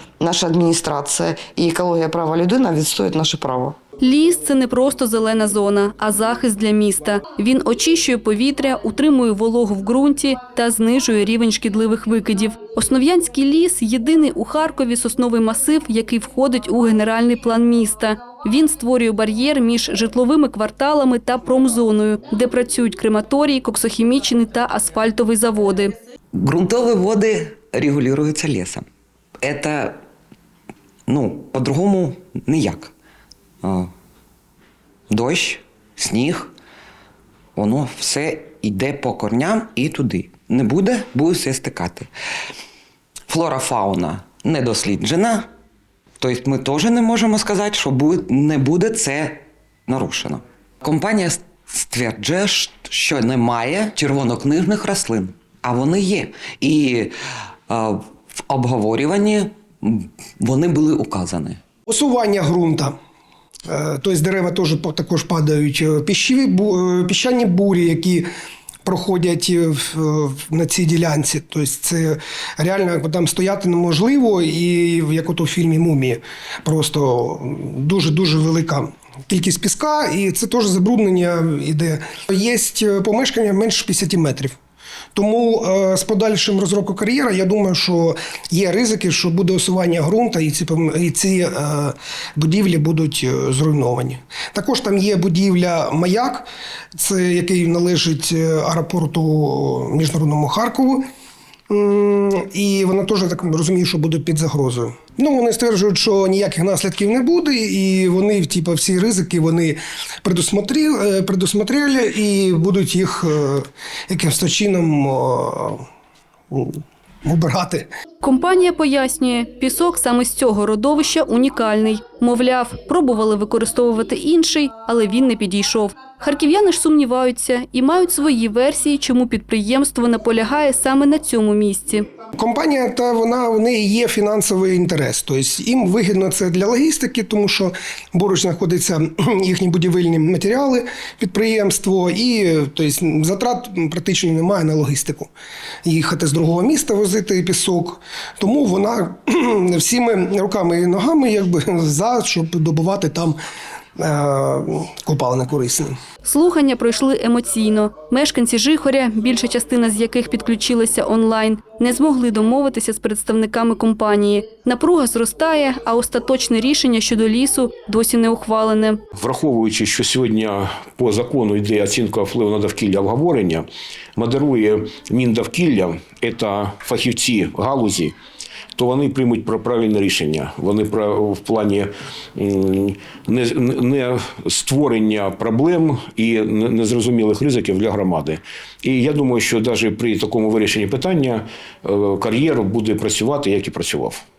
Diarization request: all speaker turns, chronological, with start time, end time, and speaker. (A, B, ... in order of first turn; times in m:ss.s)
0:00.2-0:03.8 A
0:04.0-0:25.9 B
0:26.3-0:28.8 C
0:29.4-0:30.0 C
0:31.1-0:32.9 C
0:33.6-0:33.9 C
0:35.1-0:36.5 C
0:37.5-0:42.1 C
0:43.3-0:45.5 C
0:46.2-0:57.1 C
0:57.7-1:01.6 C
1:01.9-1:02.9 D
1:03.7-1:08.3 D
1:08.8-1:24.6 D
1:25.1-1:41.0 D
1:41.7-1:55.8 D
1:56.5-1:57.9 D
1:58.2-2:12.0 B
2:12.4-2:25.3 D
2:25.8-2:33.4 D
2:34.0-2:35.9 D
2:36.2-2:49.0 B
2:49.1-2:58.1 E
2:58.7-3:14.2 E